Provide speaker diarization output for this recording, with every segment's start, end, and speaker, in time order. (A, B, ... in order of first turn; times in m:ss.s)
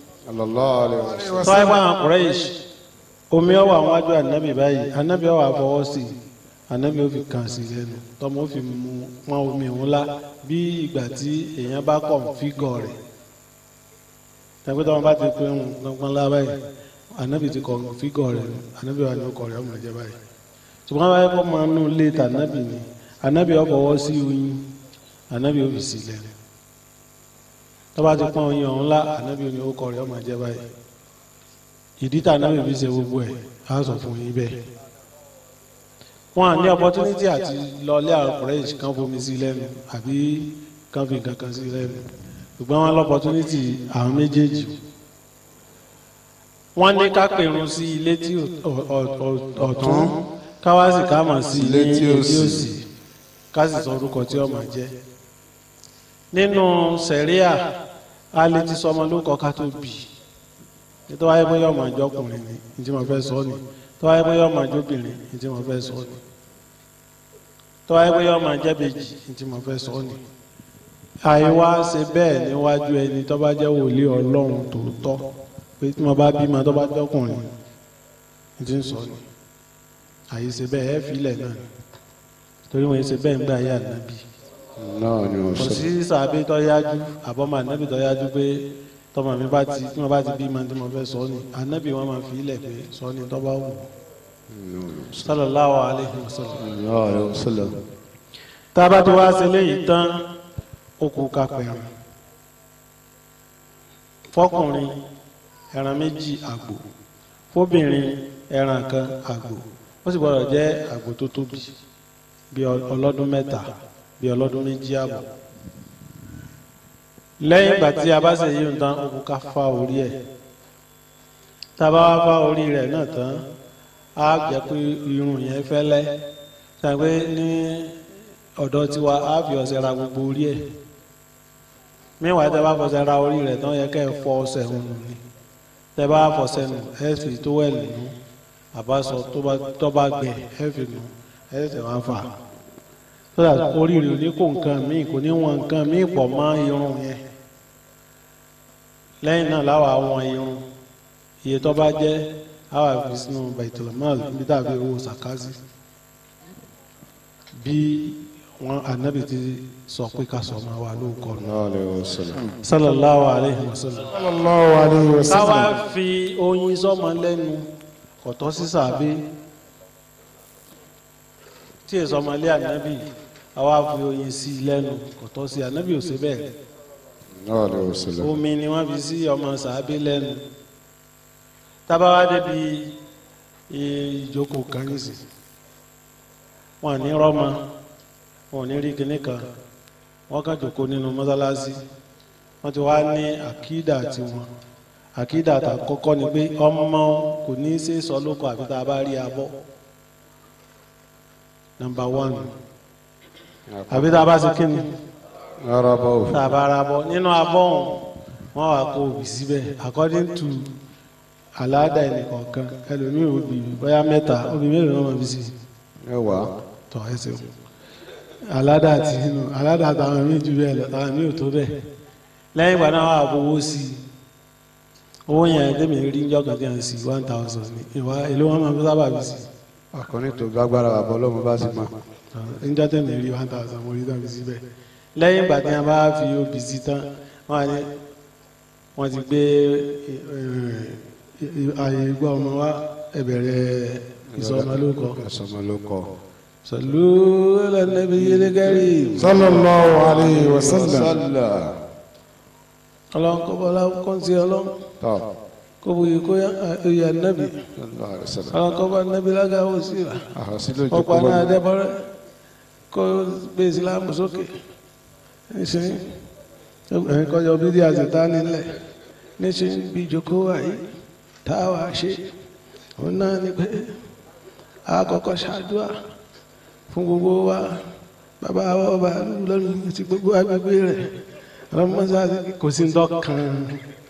0:00.3-0:01.5 A
0:01.1-0:01.8 B
0:01.4-0:02.5 C
0:03.3-0:06.1 C
0:06.7-0:13.0 C
0:14.6-0:16.6 C
0:17.2-0:20.2 C
0:20.9-0:24.6 C
0:25.3-0:26.3 C
0:28.0-0:30.6 C
0:32.0-0:34.6 C
0:36.4-0:42.1 C
0:42.6-0:44.8 C
0:46.8-0:50.1 C
0:49.7-0:50.2 A
0:50.6-0:52.8 C
0:51.5-0:52.7 A
0:53.5-0:54.9 C
0:56.3-0:57.6 C
0:58.3-1:00.1 C
1:01.1-1:06.2 C
1:07.9-1:10.2 C
1:11.2-1:15.2 C
1:15.8-1:17.5 C
1:18.6-1:19.2 C
1:20.3-1:21.6 C
1:22.7-1:24.2 C
1:24.8-1:25.9 A
1:25.6-1:33.9 C
1:34.5-1:35.3 A
1:35.2-1:36.6 C
1:36.6-1:37.8 A
1:38.8-1:40.2 C
1:41.0-1:41.9 C
1:44.3-1:45.0 C
1:45.7-1:46.8 C
1:47.5-1:51.7 C
1:52.5-1:53.7 C
1:54.2-1:55.3 C
1:57.4-2:00.2 C
2:01.8-2:03.4 C
2:04.2-2:06.2 C
2:06.8-2:08.0 C
2:08.6-2:10.6 C
2:12.2-2:15.2 C
2:16.0-2:18.1 C
2:18.7-2:22.3 C
2:23.4-2:27.2 C
2:29.2-2:30.6 C
2:31.4-2:35.6 C
2:37.6-2:41.5 C
2:41.4-2:42.4 A
2:42.6-2:44.1 C
2:44.1-2:45.8 B
2:45.3-2:47.7 C
2:48.2-2:49.2 C
2:51.9-2:56.5 C
2:57.4-2:58.3 A
2:58.2-3:00.4 C
3:01.9-3:02.9 C
3:03.7-3:05.2 C
3:06.8-3:07.6 C
3:08.5-3:09.4 C
3:10.3-3:11.8 C
3:12.6-3:14.5 C
3:15.2-3:19.5 C
3:21.8-3:22.5 C
3:23.7-3:24.1 A
3:23.9-3:24.9 C
3:25.6-3:26.4 A
3:26.3-3:28.0 C
3:28.5-3:30.7 C
3:31.6-3:35.5 C
3:36.1-3:36.5 A
3:36.9-3:37.5 C
3:38.5-3:41.8 C
3:42.6-3:44.0 C
3:45.3-3:49.5 C
3:49.9-3:51.9 A
3:52.3-3:54.6 C
3:55.2-3:57.9 C
3:59.0-4:05.2 C
4:04.3-4:06.1 A
4:06.7-4:09.6 C
4:08.2-4:11.8 A
4:09.2-4:11.1 B
4:10.6-4:11.0 C
4:13.2-4:14.7 C
4:15.0-4:15.3 A
4:15.8-4:17.6 C
4:17.8-4:18.6 A
4:18.5-4:20.2 C
4:20.3-4:21.5 A
4:20.9-4:22.1 C
4:22.9-4:24.5 C
4:25.5-4:26.0 C
4:26.9-4:28.8 C
4:29.4-4:30.8 C
4:31.4-4:32.3 C
4:33.0-4:34.0 C
4:34.9-4:35.9 C
4:36.9-4:37.8 C
4:38.4-4:41.1 C
4:41.7-4:43.8 C